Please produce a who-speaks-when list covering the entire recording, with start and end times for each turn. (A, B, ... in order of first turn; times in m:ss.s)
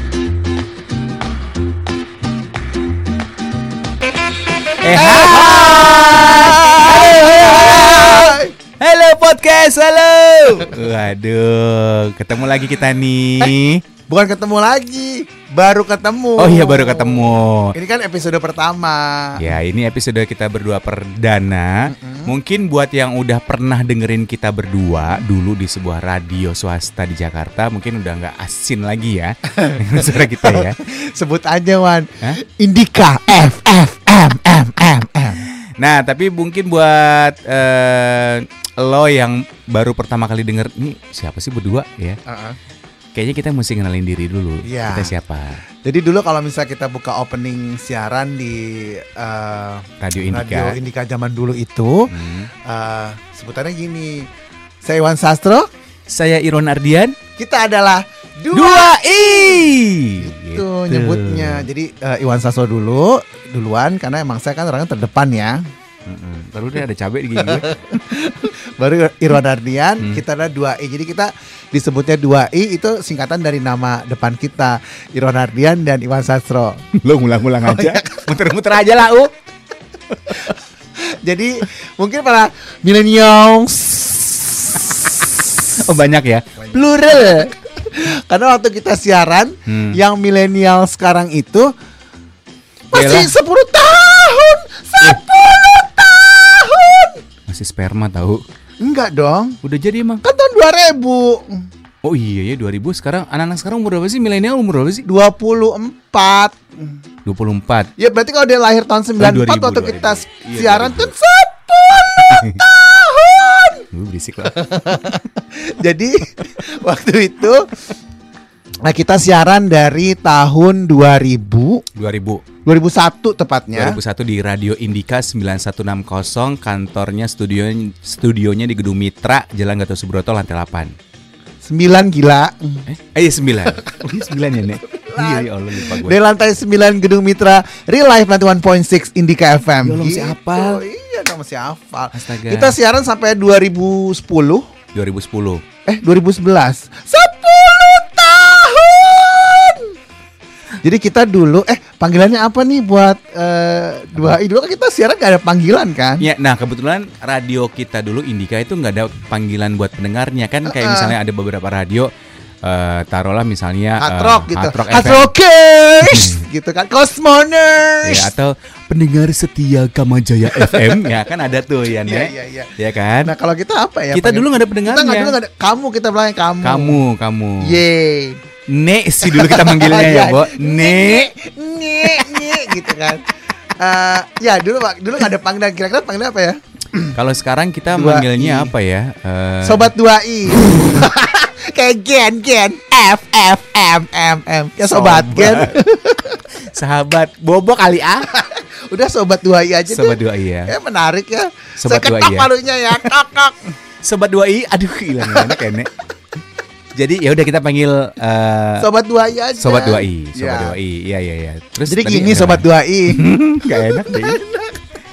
0:04.8-0:13.8 A
0:04.9-0:08.5 B
0:14.1-0:19.5 B
0:16.4-0:17.8 A
0:19.4-0:30.8 A
0:21.9-0:22.3 B
0:29.5-0:35.4 B
0:35.4-0:42.2 A
0:42.3-0:42.6 B
0:43.1-0:45.6 A
0:44.6-0:45.1 B
0:45.8-0:54.3 B
0:50.0-0:50.8 A
0:52.1-0:52.5 A
0:54.8-0:55.7 B
0:56.1-0:57.2 A
0:57.4-0:59.7 B
0:58.5-1:01.7 A
1:00.2-1:05.6 B
1:06.0-1:07.7 A
1:07.4-1:16.8 B
1:16.9-1:19.3 A
1:17.6-1:18.3 B
1:20.3-1:25.9 B
1:25.7-1:27.5 A
1:26.6-1:31.7 B
1:29.7-1:30.0 A
1:32.9-1:37.2 B
1:32.9-1:33.3 A
1:37.5-1:38.4 A
1:38.8-1:39.6 B
1:39.6-1:40.2 A
1:40.2-1:41.7 B
1:42.0-1:45.0 A
1:45.0-1:47.0 B
1:47.2-1:47.9 A
1:48.0-1:53.9 B
1:49.2-1:51.1 A
1:52.2-1:52.6 A
1:53.9-1:54.8 A
1:54.4-1:57.7 B
1:58.8-2:01.8 B
2:02.0-2:02.4 A
2:02.6-2:04.0 B
2:03.7-2:10.9 A
2:11.6-2:12.9 B
2:12.9-2:16.2 A
2:14.8-2:24.6 B
2:19.8-2:20.8 A
2:22.1-2:22.8 A
2:24.9-2:25.6 A
2:25.8-2:29.9 B
2:30.8-2:36.2 B
2:36.2-2:42.1 A
2:40.7-2:41.1 B
2:42.6-2:45.3 A
2:44.0-2:48.3 B
2:46.0-2:46.4 A
2:48.0-2:53.3 A
2:50.5-2:51.2 B
2:52.0-2:57.0 B
2:54.1-2:55.4 A
2:56.6-2:57.8 A
2:57.6-2:58.4 B
2:58.7-3:01.3 A
2:59.2-3:03.3 B
3:02.0-3:03.1 A
3:03.8-3:07.2 B
3:07.1-3:09.9 A
3:07.9-3:08.7 B
3:09.6-3:16.4 B
3:14.8-3:15.8 A
3:16.6-3:18.3 A
3:18.3-3:23.6 B
3:19.9-3:20.7 A
3:21.8-3:23.1 A
3:24.0-3:25.9 A
3:25.3-3:25.6 B
3:26.9-3:28.9 A
3:28.8-3:30.8 B
3:29.6-3:34.4 A
3:31.9-3:34.8 B